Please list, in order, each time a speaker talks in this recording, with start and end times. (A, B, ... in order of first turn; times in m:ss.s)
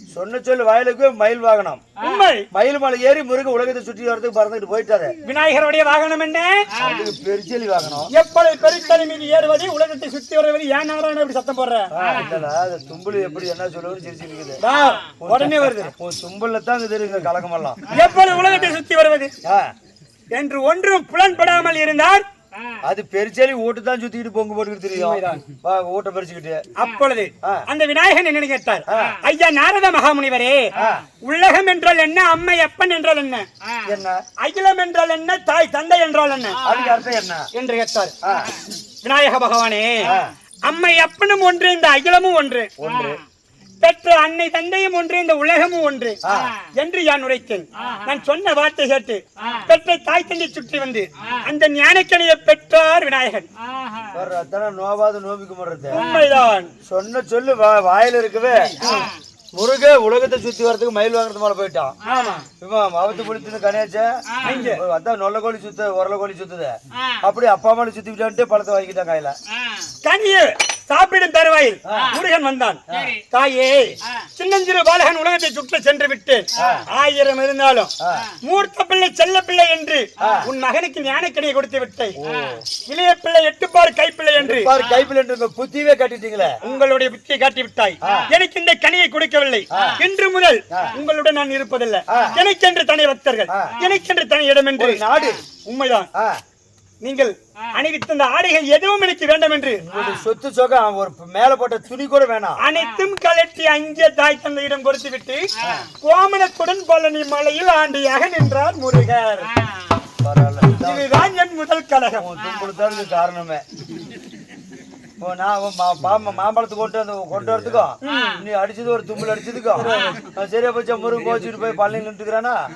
0:00.1-0:01.8 A
0:02.0-0:02.5 B
0:02.5-0:05.1 A
0:05.2-0:06.7 B
0:06.7-0:08.1 A
0:08.1-0:11.9 B
0:11.9-0:14.6 A
0:14.6-0:15.9 B
0:15.2-0:17.8 A
0:17.9-0:19.3 B
0:18.4-0:18.7 A
0:19.4-0:19.7 A
0:20.3-0:22.2 B
0:22.8-0:26.6 A
0:24.9-0:25.4 B
0:26.8-0:33.4 B
0:28.9-0:29.2 A
0:30.8-0:31.0 A
0:33.8-0:34.2 A
0:34.4-0:36.7 B
0:36.6-0:37.5 A
0:37.5-0:38.1 B
0:38.2-0:38.5 A
0:39.0-0:40.1 B
0:40.0-0:40.3 A
0:40.6-0:42.7 B
0:42.8-0:43.2 A
0:43.8-0:46.2 B
0:46.2-0:46.6 A
0:46.7-0:53.5 B
0:54.1-0:56.0 A
0:55.9-0:56.7 B
0:56.8-1:01.9 A
0:58.8-0:59.1 B
1:02.0-1:02.4 B
1:02.6-1:09.3 A
1:04.4-1:04.8 B
1:10.0-1:22.2 B
1:11.8-1:12.2 A
1:12.9-1:13.1 A
1:16.5-1:16.8 A
1:18.0-1:18.3 A
1:20.2-1:20.5 A
1:22.2-1:22.6 A
1:22.8-1:24.7 B
1:24.4-1:26.6 A
1:26.6-1:35.0 B
1:28.0-1:28.3 A
1:29.7-1:30.0 A
1:30.7-1:31.0 A
1:32.1-1:32.4 A
1:33.5-1:33.8 A
1:34.8-1:35.4 A
1:35.6-1:36.1 B
1:36.1-1:36.4 A
1:37.0-1:39.8 B
1:39.8-1:42.6 A
1:42.6-1:49.5 B
1:45.6-1:45.9 A
1:50.2-1:51.1 A
1:50.8-1:52.3 B
1:52.2-1:53.6 A
1:55.2-2:02.6 A
1:58.0-1:58.4 B
1:59.8-2:00.2 B